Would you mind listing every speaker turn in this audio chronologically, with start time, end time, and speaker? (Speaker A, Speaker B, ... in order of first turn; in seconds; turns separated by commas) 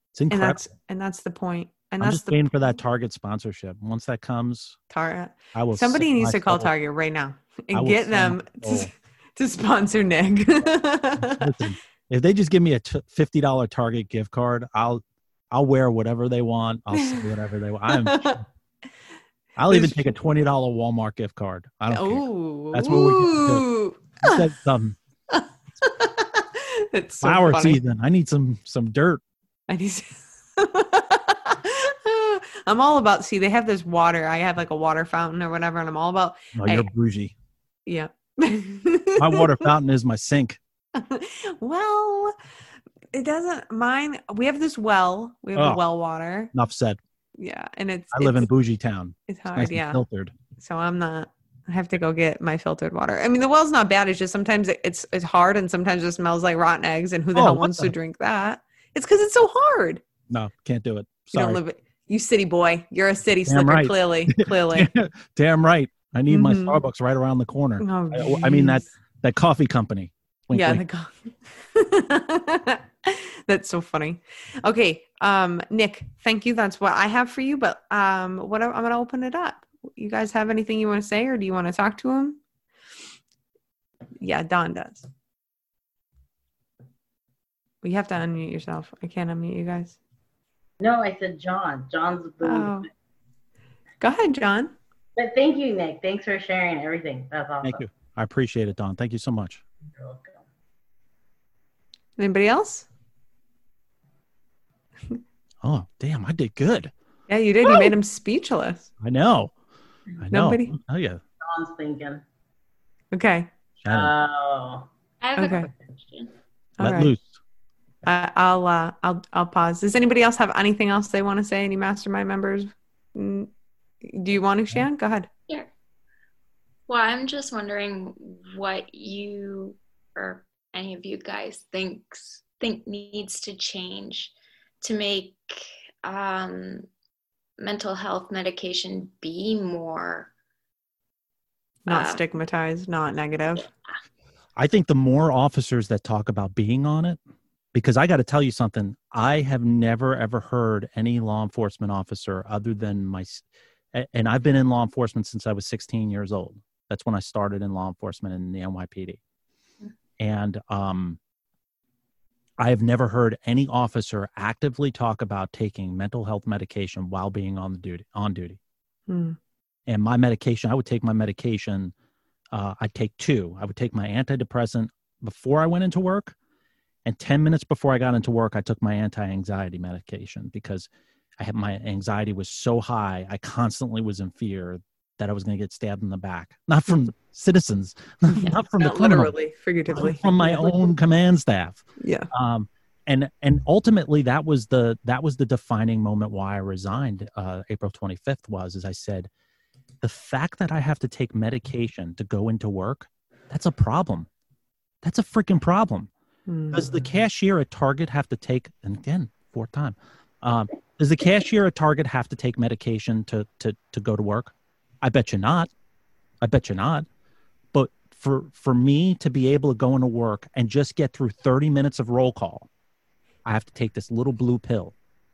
Speaker A: 0.1-0.6, Speaker B: 0.3-2.4, Speaker A: 2.0-4.8, Speaker B: 4.9-11.7, Speaker A: 5.5-6.7, Speaker A: 7.7-8.9, Speaker A: 11.2-18.4, Speaker B: 16.9-17.2, Speaker B: 17.9-18.4, Speaker A: 19.6-23.7, Speaker B: 19.7-20.1, Speaker B: 21.9-24.5, Speaker A: 24.2-25.0, Speaker B: 25.3-27.8, Speaker A: 27.2-29.2, Speaker B: 29.7-36.9, Speaker A: 36.5-37.3, Speaker B: 37.9-39.7, Speaker A: 39.2-40.6, Speaker B: 41.0-42.4, Speaker B: 43.1-46.5, Speaker A: 45.5-45.8, Speaker A: 46.5-47.0, Speaker B: 47.4-48.5, Speaker A: 48.1-50.3, Speaker B: 49.3-50.0, Speaker B: 50.6-60.0, Speaker A: 57.3-57.9, Speaker A: 60.3-61.6, Speaker B: 61.3-64.9, Speaker A: 63.5-70.8, Speaker B: 66.3-66.8, Speaker B: 67.8-68.9, Speaker B: 70.5-82.4, Speaker B: 84.2-85.1, Speaker B: 87.8-90.0, Speaker C: 90.8-92.9, Speaker B: 92.4-92.9, Speaker B: 94.0-94.7, Speaker C: 95.2-97.9, Speaker A: 97.6-99.6, Speaker C: 100.0-100.4, Speaker B: 102.2-102.9, Speaker A: 105.6-106.9, Speaker B: 107.3-108.9, Speaker A: 107.7-107.9, Speaker A: 109.0-109.5, Speaker A: 110.2-111.2, Speaker B: 110.3-110.7, Speaker C: 111.4-112.2, Speaker B: 113.1-113.5, Speaker A: 113.8-114.1, Speaker C: 113.9-114.9, Speaker D: 115.2-116.3, Speaker B: 115.4-115.7, Speaker B: 116.8-117.1, Speaker A: 116.8-117.3, Speaker B: 118.0-123.5, Speaker B: 124.0-125.3, Speaker D: 126.9-136.9, Speaker D: 137.6-140.3, Speaker B: 141.9-143.7, Speaker D: 141.9-142.2, Speaker A: 144.6-147.2, Speaker A: 147.7-159.2, Speaker A: 160.2-161.2, Speaker A: 162.6-168.6, Speaker B: 169.1-169.4, Speaker A: 169.9-171.9, Speaker A: 172.5-176.3, Speaker A: 177.1-189.3, Speaker B: 188.3-190.9, Speaker A: 189.9-199.3, Speaker B: 192.0-192.3, Speaker A: 200.0-204.3, Speaker A: 205.0-206.1, Speaker B: 206.5-206.9, Speaker A: 206.7-215.7, Speaker A: 216.4-217.1, Speaker A: 217.7-222.7, Speaker A: 223.4-224.9